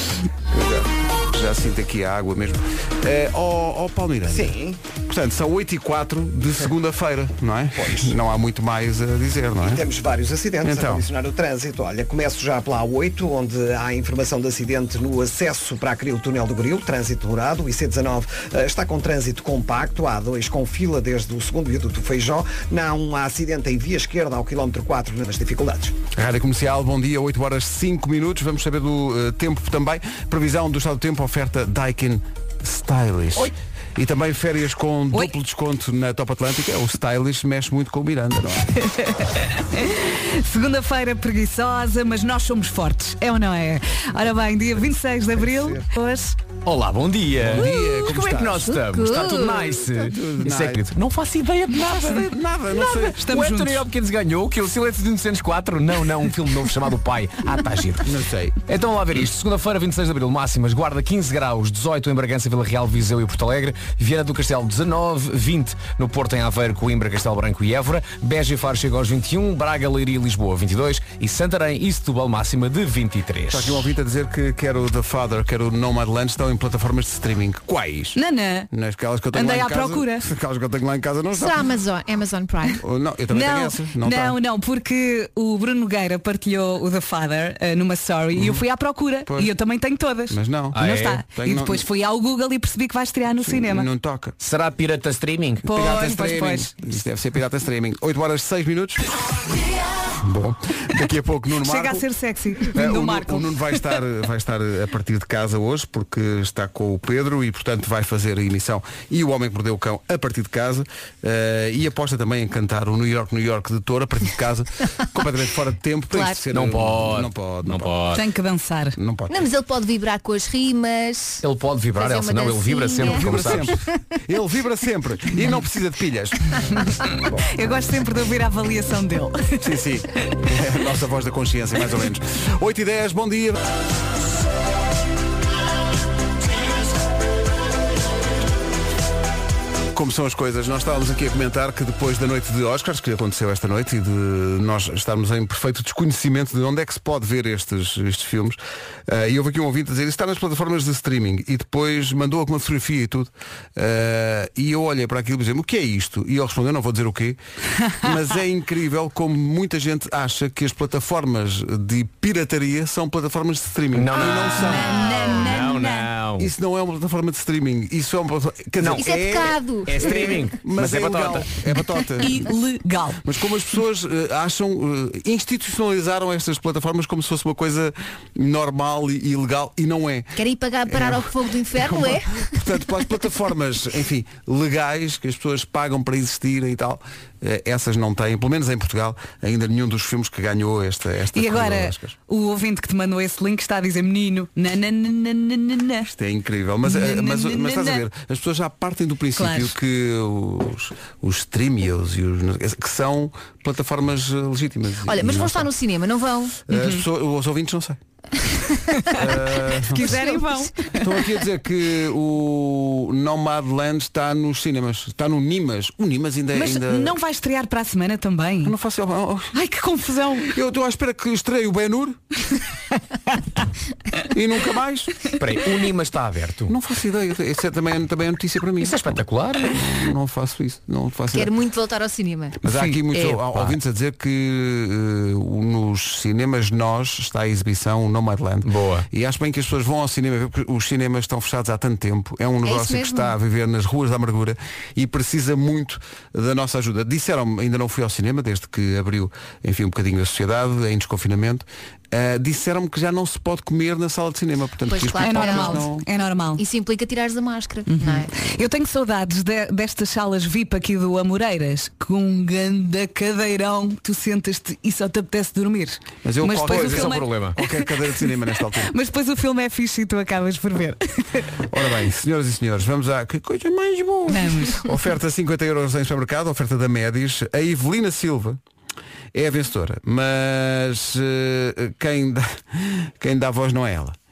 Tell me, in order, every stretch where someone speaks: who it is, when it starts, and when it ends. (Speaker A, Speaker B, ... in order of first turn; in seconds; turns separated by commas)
Speaker A: 0.5-9.8, Speaker B: 4.3-4.8, Speaker B: 7.8-8.2, Speaker B: 9.6-25.9, Speaker A: 10.6-11.0, Speaker A: 26.1-38.7, Speaker C: 38.8-46.4, Speaker D: 46.6-52.3, Speaker A: 47.4-48.8, Speaker E: 48.7-49.8, Speaker A: 49.9-50.9, Speaker A: 51.9-53.2, Speaker D: 53.1-58.1, Speaker C: 53.2-53.9, Speaker A: 58.0-58.6, Speaker D: 58.7-73.8, Speaker A: 73.5-78.2, Speaker C: 78.2-78.7, Speaker A: 78.7-81.7, Speaker C: 79.3-80.2, Speaker E: 81.3-82.8, Speaker A: 82.8-84.3, Speaker C: 83.3-93.9, Speaker A: 88.3-88.6, Speaker A: 89.3-89.5, Speaker A: 90.3-91.8, Speaker D: 90.7-91.2, Speaker A: 93.4-94.3, Speaker D: 94.4-95.7, Speaker C: 95.6-96.7, Speaker A: 95.7-99.1, Speaker A: 100.2-102.0, Speaker C: 101.6-103.8, Speaker A: 102.6-117.9, Speaker E: 116.1-116.4, Speaker D: 116.5-118.2, Speaker C: 118.1-119.0, Speaker A: 119.0-119.4, Speaker E: 119.3-121.4, Speaker D: 121.4-123.7, Speaker E: 121.9-124.0, Speaker A: 123.0-126.5, Speaker C: 127.4-129.7, Speaker A: 129.6-133.6, Speaker A: 139.9-157.4, Speaker A: 158.0-165.1, Speaker D: 163.9-166.5, Speaker C: 164.2-166.1, Speaker E: 165.0-165.4, Speaker A: 166.4-172.4, Speaker E: 168.9-170.3, Speaker D: 169.8-171.5, Speaker C: 172.2-173.2, Speaker A: 173.2-180.3, Speaker E: 180.3-182.4, Speaker A: 180.9-192.1, Speaker C: 191.3-196.1, Speaker A: 196.1-205.7, Speaker C: 196.8-198.0, Speaker C: 199.3-199.7, Speaker E: 205.1-206.6, Speaker A: 206.7-208.0, Speaker C: 206.7-207.0, Speaker A: 209.1-210.2, Speaker C: 209.9-211.0, Speaker E: 209.9-211.0, Speaker A: 211.0-217.1, Speaker C: 216.5-218.7, Speaker A: 218.6-219.6, Speaker C: 219.5-220.5, Speaker A: 220.4-222.2, Speaker A: 224.3-225.3, Speaker D: 225.3-226.7, Speaker A: 226.7-231.5, Speaker D: 228.8-229.8, Speaker E: 231.3-232.6, Speaker A: 232.6-256.0, Speaker C: 232.7-233.0, Speaker D: 233.1-233.8, Speaker D: 238.6-239.1, Speaker E: 242.6-243.3, Speaker E: 254.9-255.9, Speaker C: 255.2-256.6, Speaker E: 256.6-258.3, Speaker C: 257.9-267.8, Speaker A: 266.2-268.9, Speaker D: 266.6-267.6, Speaker C: 268.8-271.4, Speaker A: 271.7-278.6, Speaker C: 274.3-274.9, Speaker A: 279.3-284.1